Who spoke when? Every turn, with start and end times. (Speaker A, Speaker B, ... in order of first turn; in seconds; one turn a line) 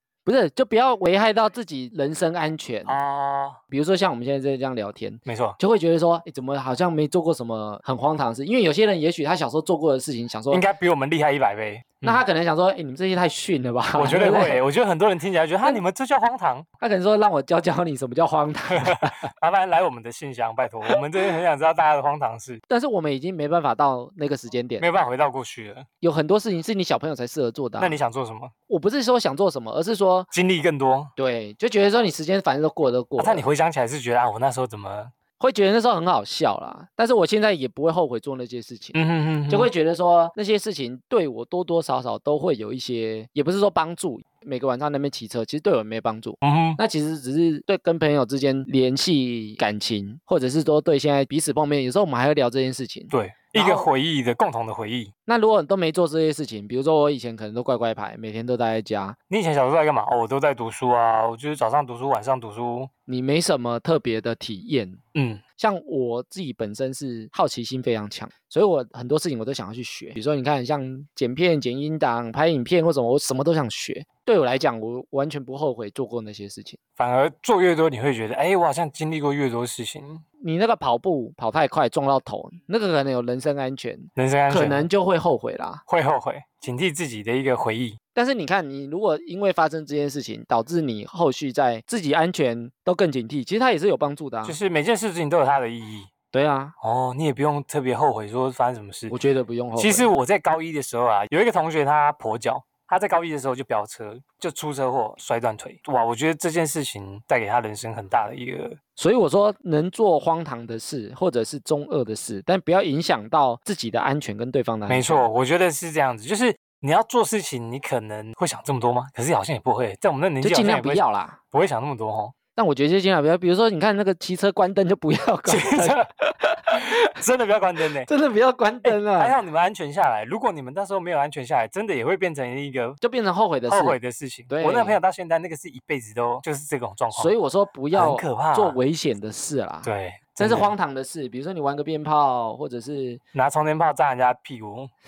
Speaker A: 0.3-3.0
Speaker B: 2.9-3.6
Speaker A: 3.7-10.6
Speaker B: 5.2-5.6
Speaker B: 10.5-12.2
Speaker A: 12.0-14.6
Speaker B: 14.0-16.7
Speaker A: 16.8-19.3
Speaker B: 18.7-22.6
Speaker A: 22.7-24.9
Speaker B: 24.8-25.9
Speaker A: 26.0-28.0
Speaker B: 27.8-28.5
Speaker A: 28.7-30.3
Speaker B: 30.3-31.1
Speaker A: 31.2-33.5
Speaker B: 33.2-35.1
Speaker A: 35.4-39.0
Speaker B: 38.9-39.7
Speaker A: 39.5-53.9
Speaker B: 46.4-46.8
Speaker B: 53.1-55.1
Speaker A: 55.3-59.2
Speaker B: 59.3-62.9
Speaker A: 63.1-65.0
Speaker B: 65.2-65.4
Speaker A: 65.6-76.8
Speaker B: 77.0-80.2
Speaker A: 80.4-85.8
Speaker B: 84.2-84.9
Speaker B: 85.9-88.0
Speaker A: 88.2-94.6
Speaker B: 94.4-96.1
Speaker A: 96.3-96.8
Speaker B: 96.8-99.2
Speaker A: 99.1-100.1
Speaker B: 99.8-108.8
Speaker A: 109.0-115.2
Speaker B: 114.9-122.3
Speaker A: 120.4-121.4
Speaker A: 122.6-127.1
Speaker B: 125.5-126.1
Speaker B: 126.7-128.1
Speaker A: 128.1-129.3
Speaker B: 128.8-133.0
Speaker A: 133.0-134.0
Speaker B: 133.7-137.3
Speaker A: 134.5-135.0
Speaker A: 137.1-143.2
Speaker B: 137.9-138.8
Speaker B: 139.8-140.7
Speaker B: 143.3-144.9